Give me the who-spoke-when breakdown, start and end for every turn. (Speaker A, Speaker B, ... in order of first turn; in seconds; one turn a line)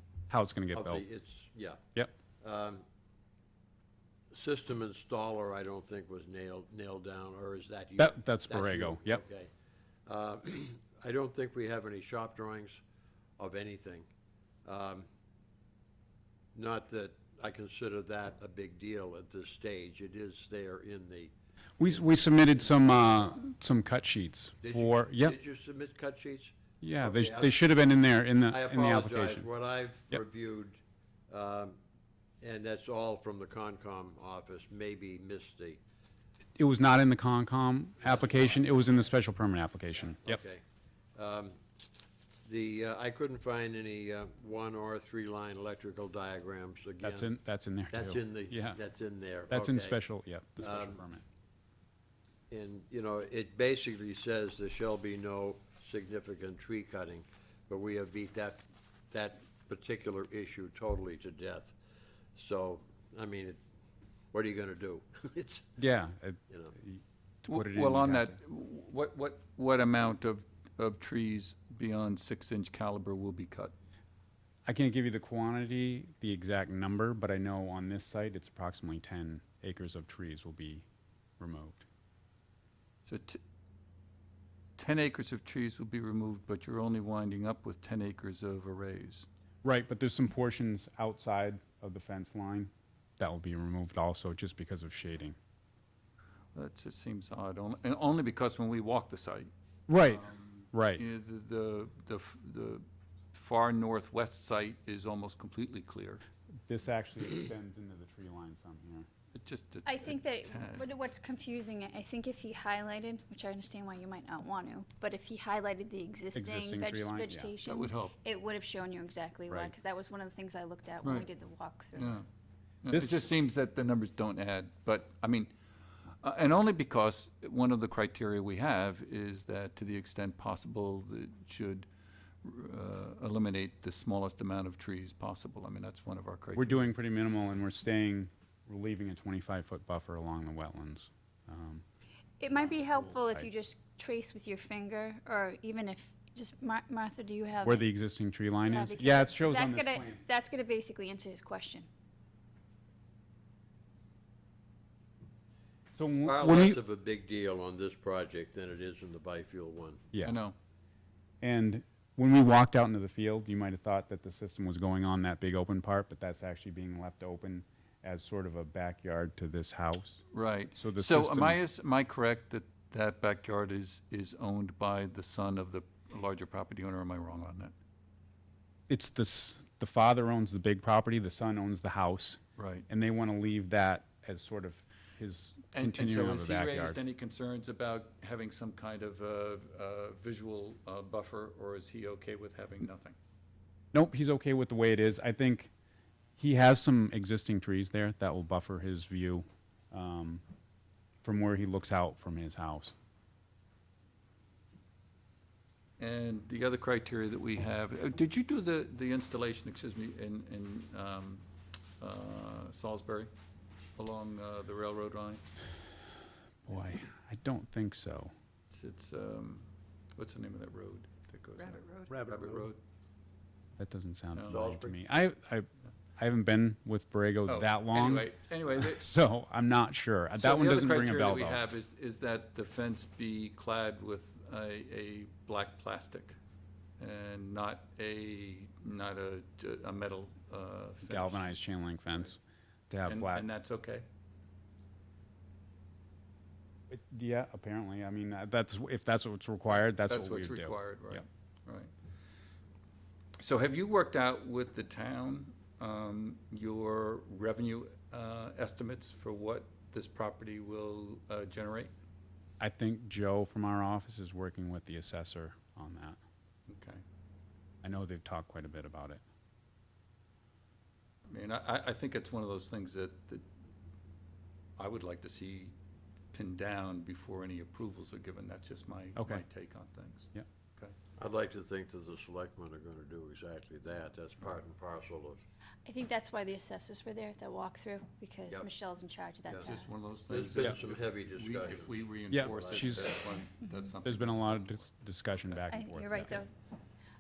Speaker A: 0.3-1.0
Speaker B: 0.7-1.8
Speaker B: 2.4-2.8
Speaker B: 4.3-9.5
Speaker A: 8.0-9.2
Speaker B: 10.1-12.8
Speaker B: 13.4-14.1
Speaker B: 14.7-15.1
Speaker B: 16.6-23.4
Speaker A: 21.8-25.4
Speaker B: 24.6-27.7
Speaker A: 26.8-29.5
Speaker B: 28.4-31.8
Speaker B: 32.4-35.8
Speaker A: 36.6-40.4
Speaker B: 38.0-38.9
Speaker B: 40.2-40.6
Speaker B: 41.1-41.6
Speaker B: 42.5-47.3
Speaker A: 47.0-48.8
Speaker B: 47.9-50.0
Speaker A: 49.5-51.2
Speaker B: 50.6-51.0
Speaker B: 52.5-61.8
Speaker B: 62.4-63.6
Speaker B: 64.3-65.7
Speaker A: 65.8-68.4
Speaker B: 66.5-66.8
Speaker C: 67.5-73.7
Speaker A: 74.7-80.9
Speaker A: 81.4-81.8
Speaker C: 83.1-83.4
Speaker C: 84.8-89.3
Speaker A: 89.6-95.4
Speaker C: 96.5-99.5
Speaker A: 99.9-101.0
Speaker C: 100.0-106.2
Speaker A: 106.7-109.1
Speaker C: 109.3-110.8
Speaker D: 109.9-122.2
Speaker A: 116.3-117.5
Speaker C: 117.6-118.2
Speaker C: 121.0-121.3
Speaker C: 122.0-122.3
Speaker C: 122.8-125.5
Speaker C: 126.2-131.9
Speaker C: 132.4-136.9
Speaker A: 136.6-141.8
Speaker D: 142.4-147.9
Speaker A: 142.5-143.5
Speaker A: 147.6-150.2
Speaker D: 148.7-151.9
Speaker A: 155.9-156.8
Speaker B: 156.2-160.0
Speaker A: 160.1-160.4
Speaker C: 160.2-160.6
Speaker A: 161.4-170.2
Speaker C: 170.3-177.7
Speaker A: 170.8-171.6
Speaker A: 178.9-187.0
Speaker C: 182.6-182.9
Speaker C: 185.7-193.2
Speaker A: 193.9-195.7
Speaker A: 196.4-200.4
Speaker A: 201.2-202.9
Speaker C: 206.0-211.4
Speaker C: 212.0-213.3
Speaker C: 214.0-215.4
Speaker A: 216.7-218.3
Speaker C: 218.7-222.8
Speaker B: 222.1-222.7
Speaker A: 223.8-231.6
Speaker C: 224.3-224.7
Speaker B: 224.5-225.0
Speaker C: 227.5-229.1
Speaker C: 230.4-236.4
Speaker C: 237.0-241.5
Speaker A: 241.0-243.4
Speaker C: 243.1-244.1
Speaker A: 246.9-251.2
Speaker C: 249.7-251.9
Speaker C: 253.4-261.9
Speaker A: 262.6-266.2
Speaker C: 266.7-267.0
Speaker A: 267.8-269.2
Speaker C: 271.3-273.4
Speaker C: 274.8-275.8
Speaker C: 276.3-280.9
Speaker A: 279.2-279.4
Speaker B: 281.2-285.4
Speaker D: 285.9-289.9
Speaker C: 289.6-294.9
Speaker B: 290.3-293.3
Speaker A: 292.3-293.2
Speaker D: 293.6-293.9
Speaker A: 294.0-296.4
Speaker D: 295.7-296.5